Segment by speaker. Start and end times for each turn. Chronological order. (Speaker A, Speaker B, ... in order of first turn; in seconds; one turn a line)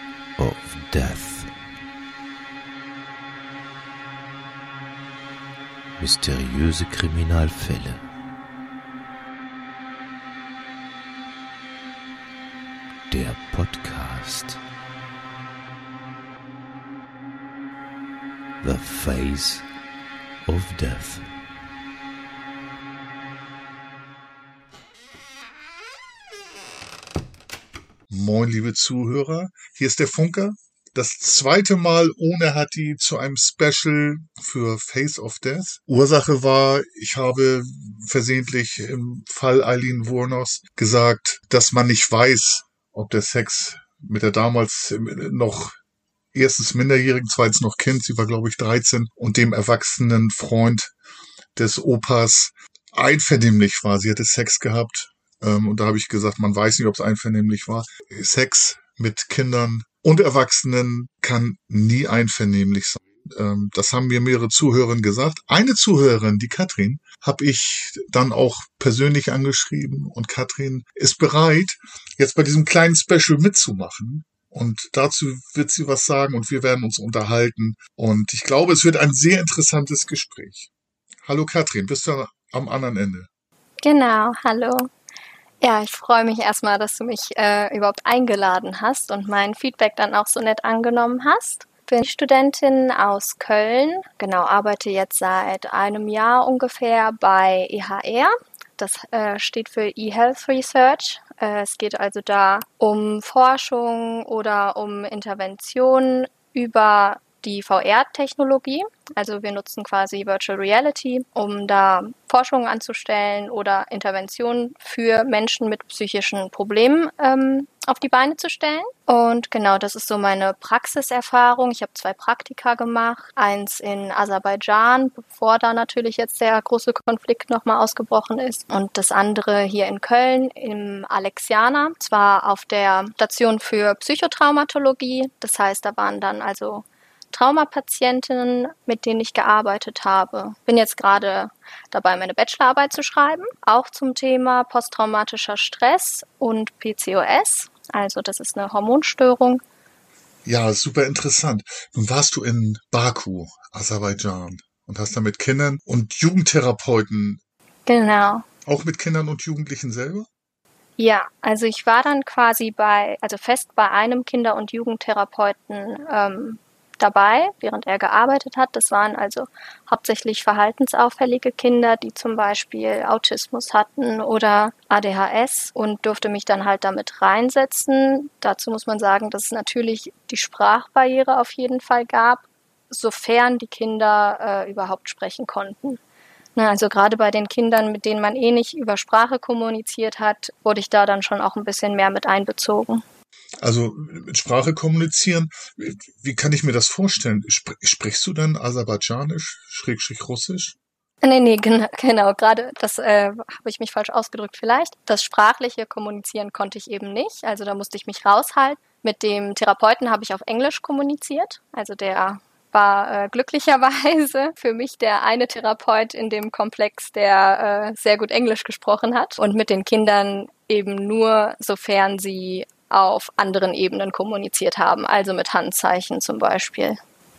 Speaker A: 0.4-1.6
Speaker A: 6.0-8.1
Speaker A: 13.1-14.6
Speaker A: 18.6-19.7
Speaker A: 20.4-21.3
Speaker B: 28.1-45.8
Speaker B: 46.3-50.9
Speaker B: 51.5-80.7
Speaker B: 81.2-83.3
Speaker C: 83.8-84.9
Speaker C: 85.6-149.6
Speaker B: 150.4-157.4
Speaker C: 157.9-158.4
Speaker B: 158.7-160.3
Speaker C: 161.0-186.0
Speaker C: 186.6-193.0
Speaker B: 193.6-200.8
Speaker C: 201.2-227.0